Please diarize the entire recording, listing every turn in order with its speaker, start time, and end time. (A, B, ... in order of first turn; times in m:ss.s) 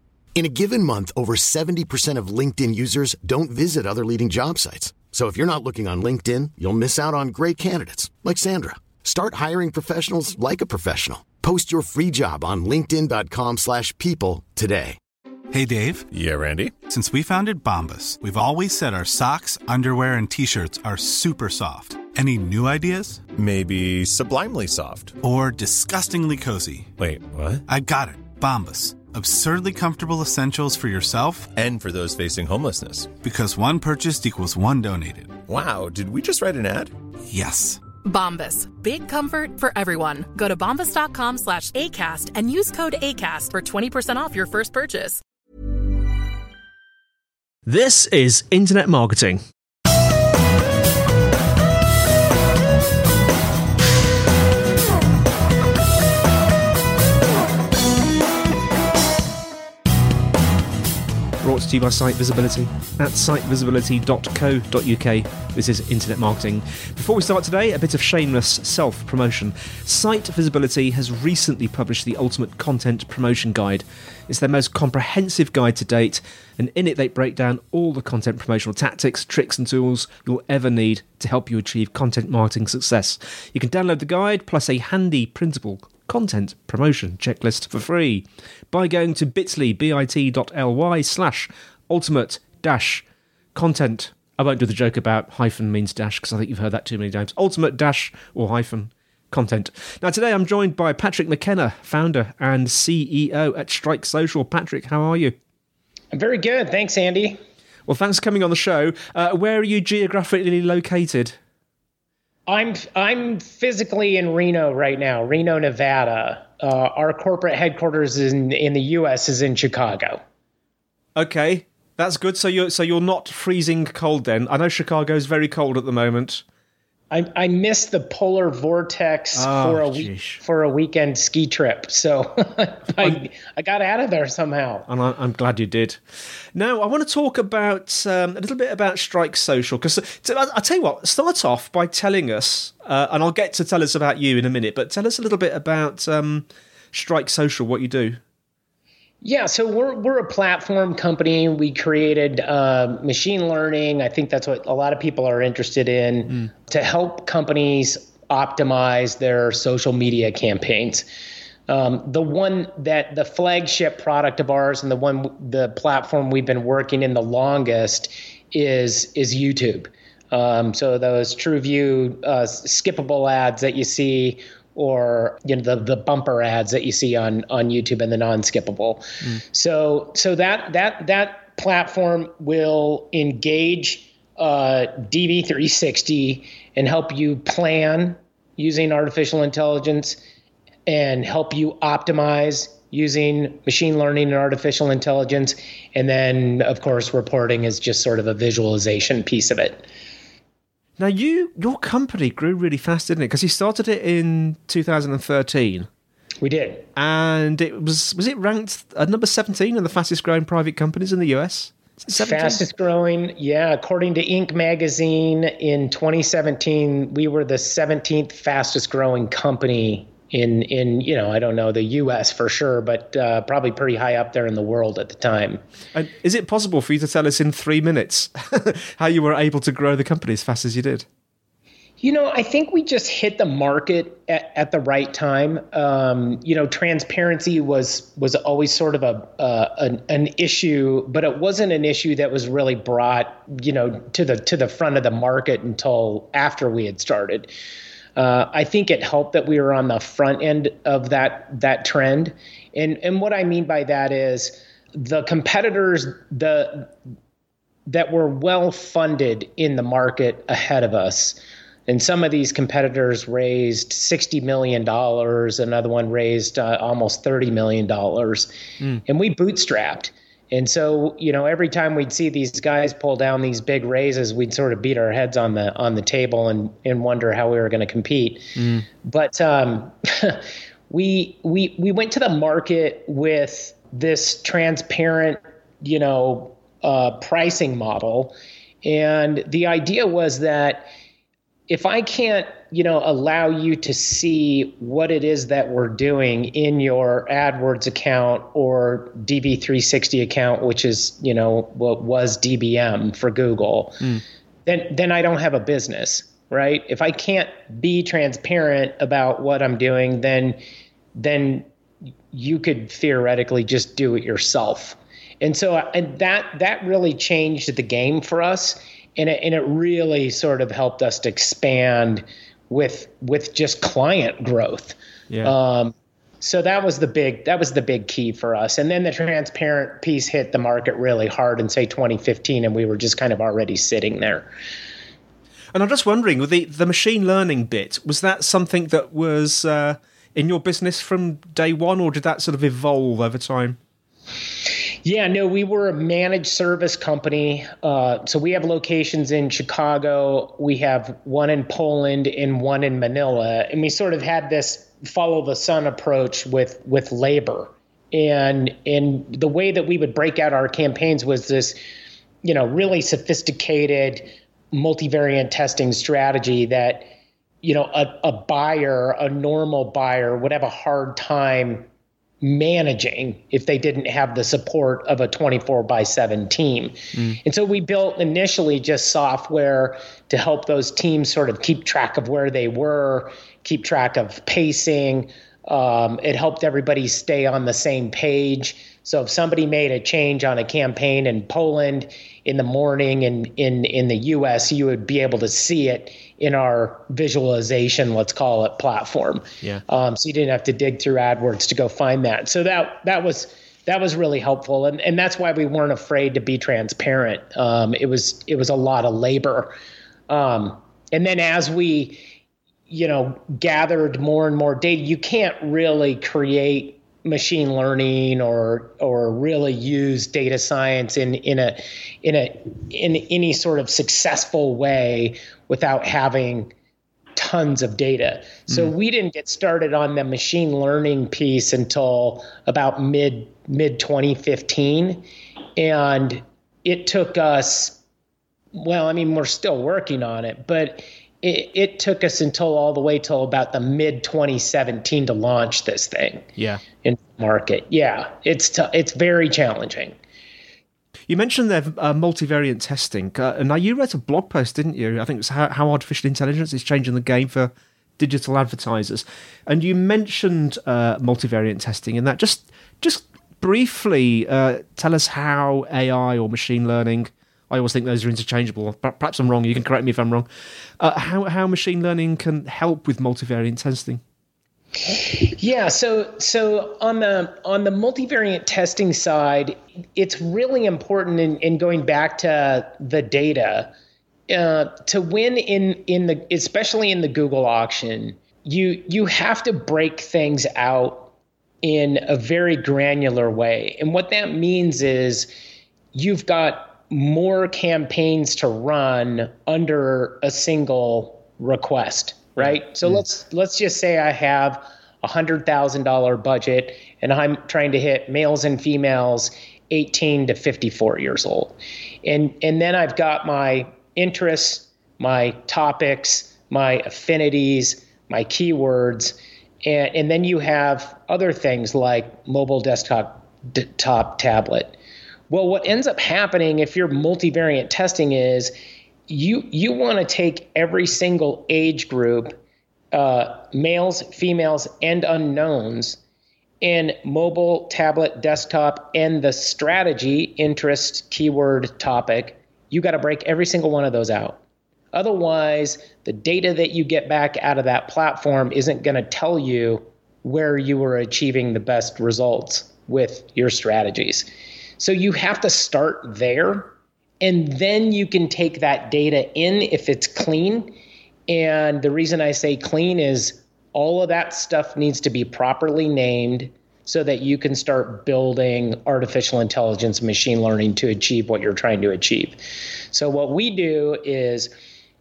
0:00.4-0:15.0 A
0:15.5-0:16.1 B
0:16.1-0:16.8 C
0:16.8-0:23.2 B
0:23.3-0:25.2 C
0:25.2-0:26.9 B
0:27.0-0:27.6 C
0:27.7-0:31.5 B
0:31.6-0:33.1 C
0:33.2-0:35.4 B
0:35.5-0:36.9 C
0:37.3-0:37.8 B
0:38.0-0:45.2 D
0:47.7-0:49.4 E
1:01.4-1:33.0 E
1:33.6-1:45.4 E
1:46.1-1:47.4 F
1:47.9-1:51.4 E
1:52.5-2:00.2 F
2:01.2-2:06.4 E
2:07.1-2:14.8 F
2:09.4-2:10.4 E
2:14.9-2:16.0 E
2:16.6-2:28.2 E
2:29.2-2:41.1 F
2:41.7-3:10.2 F
3:10.9-3:19.9 F
3:21.0-3:25.9 E
3:26.4-3:26.9 F
3:27.0-3:32.6 E
3:32.2-3:45.6 F
3:46.0-3:51.1 E
3:52.0-4:07.5 F
4:08.2-4:16.9 F
4:17.9-4:28.5 F
4:29.1-4:50.9 F
4:38.6-4:38.8 E
4:51.7-5:04.0 F
5:04.7-5:10.6 F
5:11.2-5:11.7 F
5:12.3-5:34.5 F
5:35.7-5:43.8 E
5:45.0-6:01.8 F
6:02.4-6:07.1 F
6:07.6-6:11.9 F
6:12.4-6:49.8 F
6:50.3-6:52.2 F
6:52.9-7:06.7 F
7:07.4-7:15.2 F
7:15.8-7:18.0 F
7:18.8-7:26.5 F
7:26.6-7:26.8 E
7:27.0-7:30.2 F
7:31.3-7:50.5 E
7:51.0-7:54.2 E
7:55.1-8:03.9 F
8:04.5-8:11.3 F
8:11.8-8:15.5 F
8:16.1-8:45.0 F
8:45.5-8:48.7 F
8:49.3-8:52.6 F
8:53.1-8:56.2 F
8:56.8-9:04.6 F
9:05.1-9:14.5 F
9:15.0-9:21.0 F
9:21.5-9:32.6 F
9:33.1-9:34.7 F